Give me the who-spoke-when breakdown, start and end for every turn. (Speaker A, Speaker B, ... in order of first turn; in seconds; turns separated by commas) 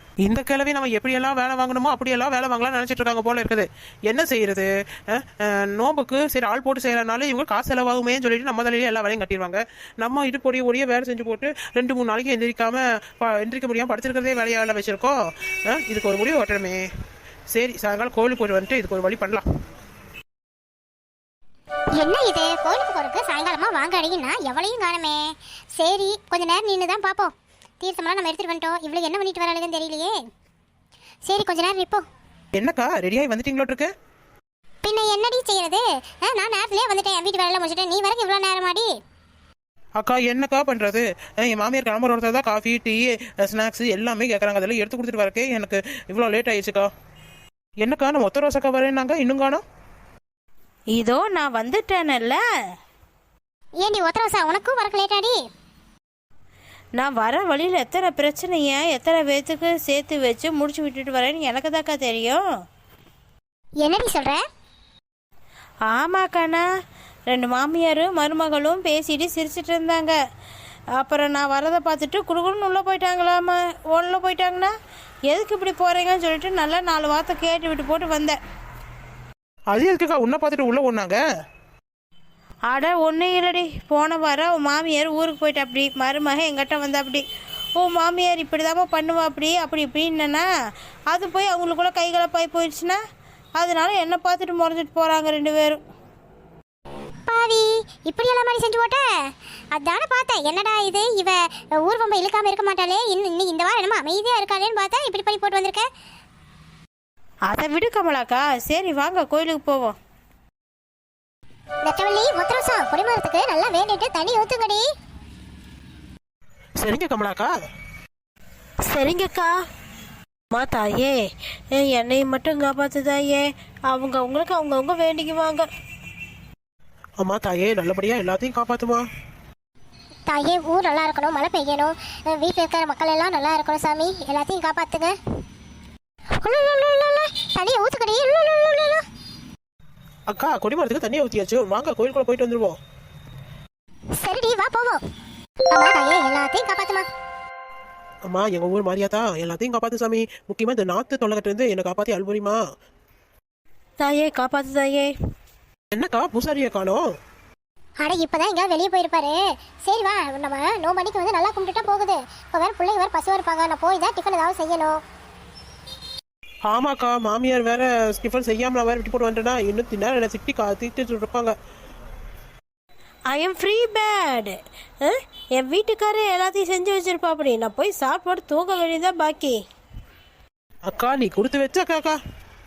Speaker A: 0.2-16.9, Speaker A: 17.5-19.4, Speaker B: 22.0-30.1, Speaker B: 31.3-32.0, Speaker A: 32.5-33.9, Speaker B: 34.8-39.0, Speaker A: 40.0-46.9, Speaker A: 47.8-49.6, Speaker C: 50.9-52.4, Speaker B: 53.8-55.4, Speaker C: 57.0-62.4, Speaker B: 63.8-64.4, Speaker C: 65.9-66.7, Speaker C: 67.3-70.2, Speaker C: 71.0-74.7, Speaker C: 75.3-78.4, Speaker A: 79.7-81.2, Speaker C: 82.7-87.2, Speaker C: 87.8-90.5, Speaker C: 91.1-93.0, Speaker C: 93.6-95.8, Speaker B: 97.3-99.0, Speaker B: 99.7-105.9, Speaker C: 107.5-110.0, Speaker B: 111.8-114.8, Speaker A: 116.8-117.5, Speaker C: 118.9-119.5, Speaker C: 120.5-125.7, Speaker A: 127.2-129.1, Speaker B: 130.3-135.2, Speaker B: 136.4-139.0, Speaker A: 140.3-142.8, Speaker B: 144.2-145.0, Speaker B: 145.7-147.1, Speaker A: 148.3-152.6, Speaker C: 154.0-155.1, Speaker A: 155.9-157.1, Speaker B: 158.0-165.0, Speaker A: 166.7-171.6, Speaker C: 173.3-179.6, Speaker A: 180.9-182.2